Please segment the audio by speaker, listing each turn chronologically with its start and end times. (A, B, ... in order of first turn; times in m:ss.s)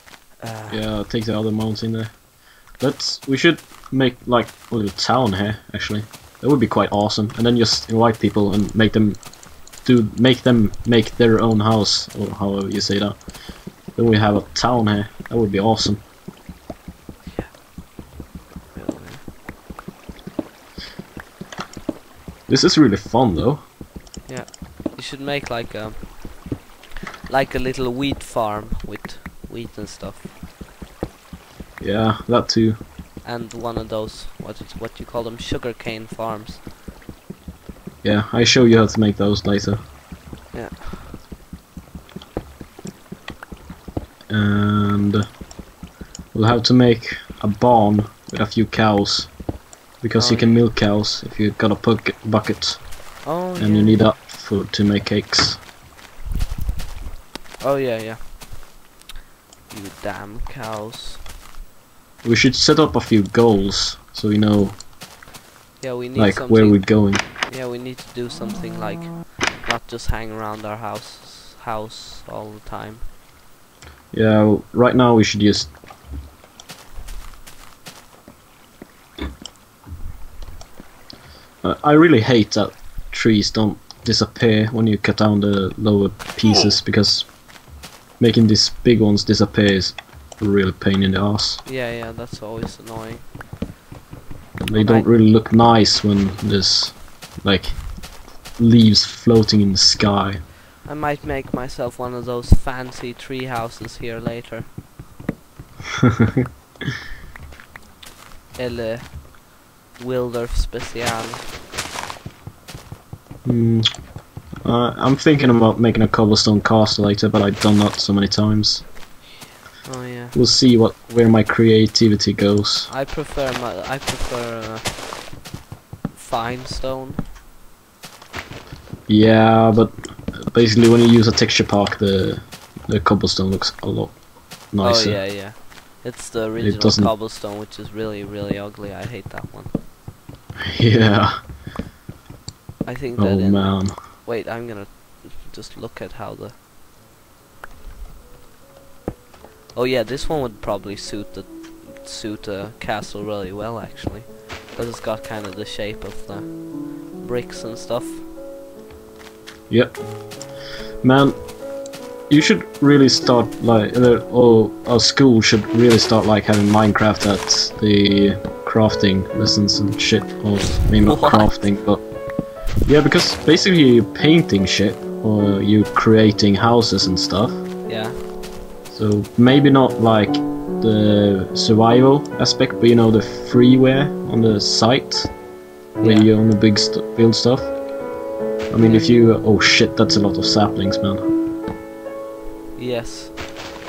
0:00.4-0:00.9 A
0:00.7-0:13.3 B
0:13.9-0:16.0 B
0:17.3-0:17.6 A
0:18.7-0:19.2 A
0:22.5-0:23.6 B
0:24.2-0:26.4 A
0:27.3-0:30.3 A
0:31.8-0:32.8 B
0:33.2-0:36.6 A
0:38.0-0:39.8 B
0:40.5-0:41.2 A
0:44.3-0:45.2 B
0:46.3-0:49.4 B
0:50.0-0:55.6 B
0:50.2-0:50.7 A
0:53.2-0:54.0 A
0:57.6-0:58.4 A
0:59.7-1:01.2 A
1:02.2-1:04.8 B
1:05.8-1:13.1 A
1:06.1-1:07.2 B
1:14.1-1:15.7 B
1:21.6-1:27.4 B
1:28.2-1:31.6 B
1:31.6-1:33.3 A
1:34.6-1:40.4 B
1:34.7-1:35.2 A
1:40.8-1:44.7 A
1:48.6-1:49.2 A
1:49.9-1:51.5 A
1:53.4-1:54.0 B
1:54.6-1:58.9 B
1:59.8-2:00.4 A
2:00.3-2:02.9 B
2:02.9-2:05.2 A
2:06.1-2:07.2 A
2:09.1-2:15.2 B
2:14.8-2:19.7 A
2:16.6-2:17.1 B
2:20.7-2:21.5 B
2:22.8-2:26.6 A
2:23.2-2:24.0 B
2:29.7-2:38.3 A
2:39.7-2:40.0 B
2:41.0-2:41.5 B
2:42.3-2:52.1 B
2:51.0-2:51.7 A
2:52.8-2:57.6 B
2:57.8-2:58.4 A
2:58.9-3:05.4 B
3:06.0-3:06.4 A
3:06.0-3:07.8 B
3:08.7-3:11.2 B
3:08.8-3:09.2 A
3:12.8-3:13.6 A